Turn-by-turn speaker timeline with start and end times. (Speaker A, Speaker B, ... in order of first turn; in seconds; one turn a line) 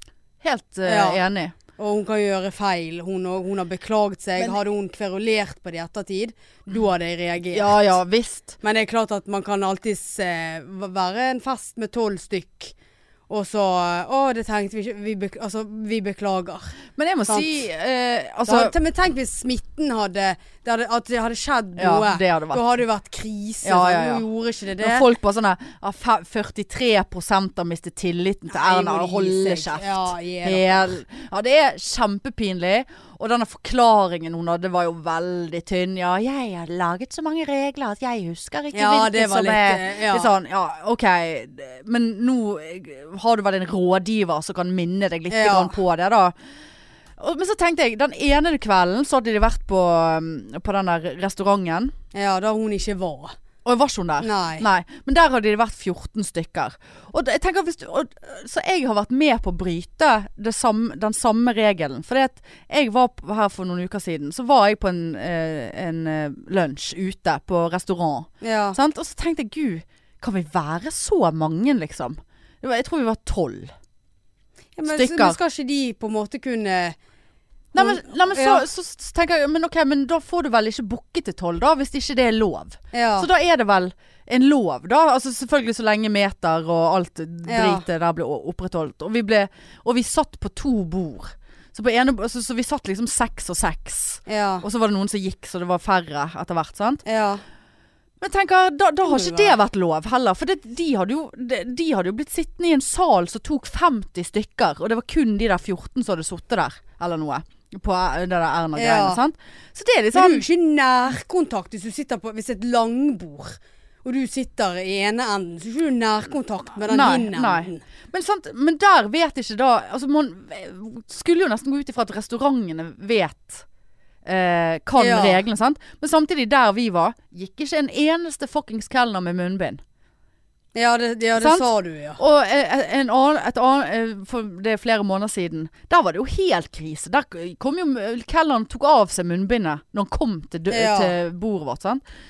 Speaker A: 0.4-1.5
Speaker B: 0.8-1.2
Speaker B: 1.8-7.8
Speaker A: 7.5-8.6
Speaker B: 8.6-12.7
Speaker B: 13.3-17.6
Speaker A: 16.9-18.7
Speaker B: 18.4-25.0
Speaker A: 21.8-22.6
Speaker A: 23.6-24.2
Speaker A: 24.8-46.3
Speaker B: 28.5-30.9
Speaker B: 38.7-40.3
Speaker B: 45.3-45.8
Speaker A: 47.2-51.9
Speaker B: 52.1-53.4
Speaker A: 53.6-73.7
Speaker B: 54.2-54.6
Speaker B: 68.4-68.8
Speaker B: 74.8-77.0
Speaker A: 74.9-75.4
Speaker A: 77.7-97.0
Speaker B: 77.8-78.6
Speaker B: 82.9-83.3
Speaker B: 87.5-87.8
Speaker B: 94.3-94.7
Speaker B: 97.0-97.4
Speaker A: 98.2-110.5
Speaker B: 99.0-99.6
Speaker B: 108.7-109.2
Speaker B: 110.1-117.8
Speaker A: 116.9-123.7
Speaker A: 124.2-129.8
Speaker B: 125.0-125.4
Speaker B: 130.7-132.2
Speaker A: 131.3-142.0
Speaker B: 140.7-141.2